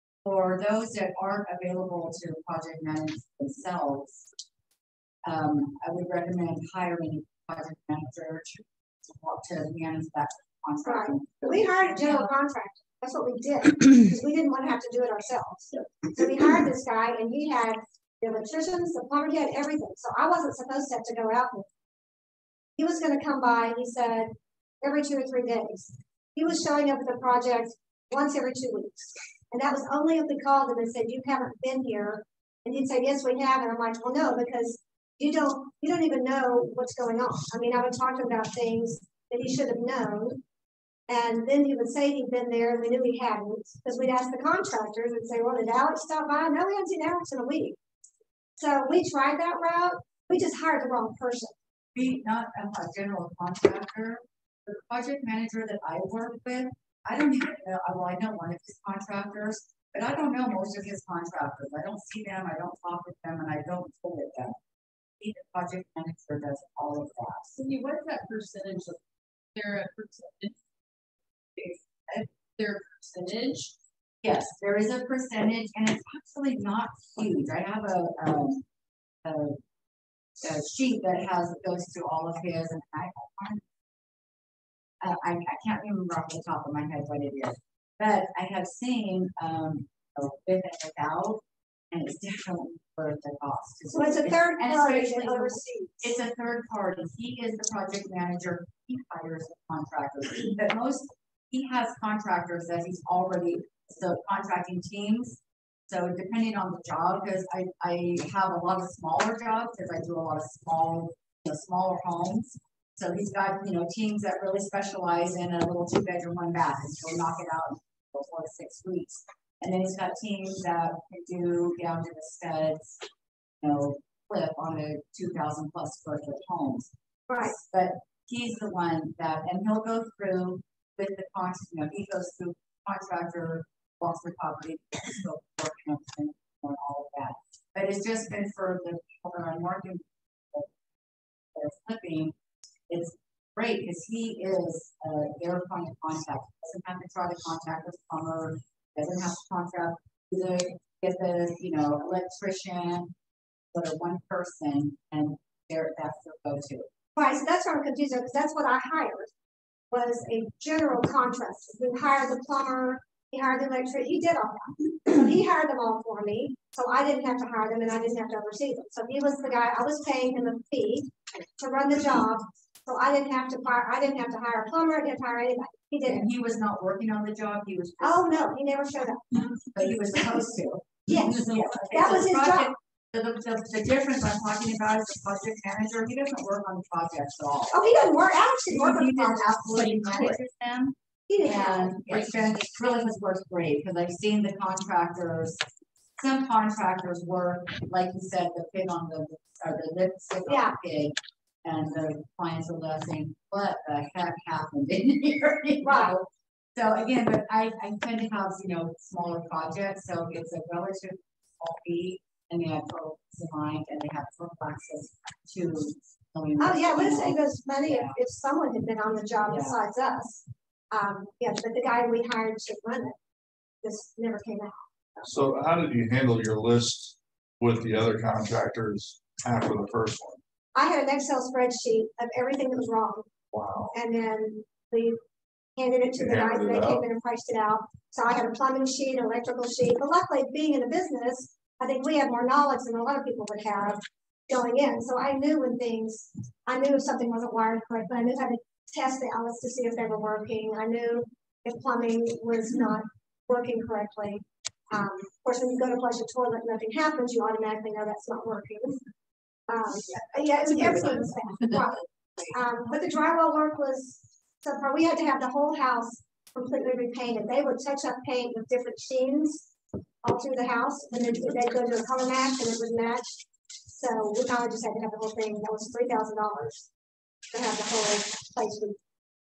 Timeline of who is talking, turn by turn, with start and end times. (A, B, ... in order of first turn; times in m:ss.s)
0:00.2-0:04.2 A
0:05.2-0:12.3 A
0:10.8-0:21.7 B
0:22.8-0:40.4 B
0:41.1-0:47.8 B
0:48.6-0:51.5 B
0:51.9-1:04.6 A
1:05.2-1:07.5 A
1:07.6-1:09.0 C
1:09.5-1:10.6 C
1:11.6-1:13.7 C
1:14.2-1:18.6 A
1:19.2-1:19.6 A
1:20.4-1:23.6 A
1:25.0-2:03.0 A
1:33.9-1:36.1 B
2:03.6-2:20.7 A
2:07.3-2:07.6 B
2:21.5-2:22.3 A
2:22.9-2:33.1 A
2:33.7-2:36.9 A
2:37.2-2:39.3 B
2:39.9-2:56.2 B
2:56.0-2:58.6 A
2:58.0-2:59.5 B
2:59.7-3:07.8 A
3:01.1-3:02.7 B
3:07.7-3:09.6 B
3:08.7-3:15.6 A
3:11.3-3:12.1 B
3:16.2-3:38.1 A
3:20.4-3:20.8 B
3:25.8-3:26.2 B
3:36.6-3:43.2 B
3:39.4-3:39.8 A
3:43.8-3:45.3 B
3:45.2-3:50.4 D
3:50.7-3:53.3 B
3:53.5-3:53.9 D
3:53.9-3:55.2 B
3:55.8-4:19.0 B
3:56.2-3:57.0 D
4:19.7-4:29.6 B
4:30.2-4:36.8 B
4:37.5-4:39.0 B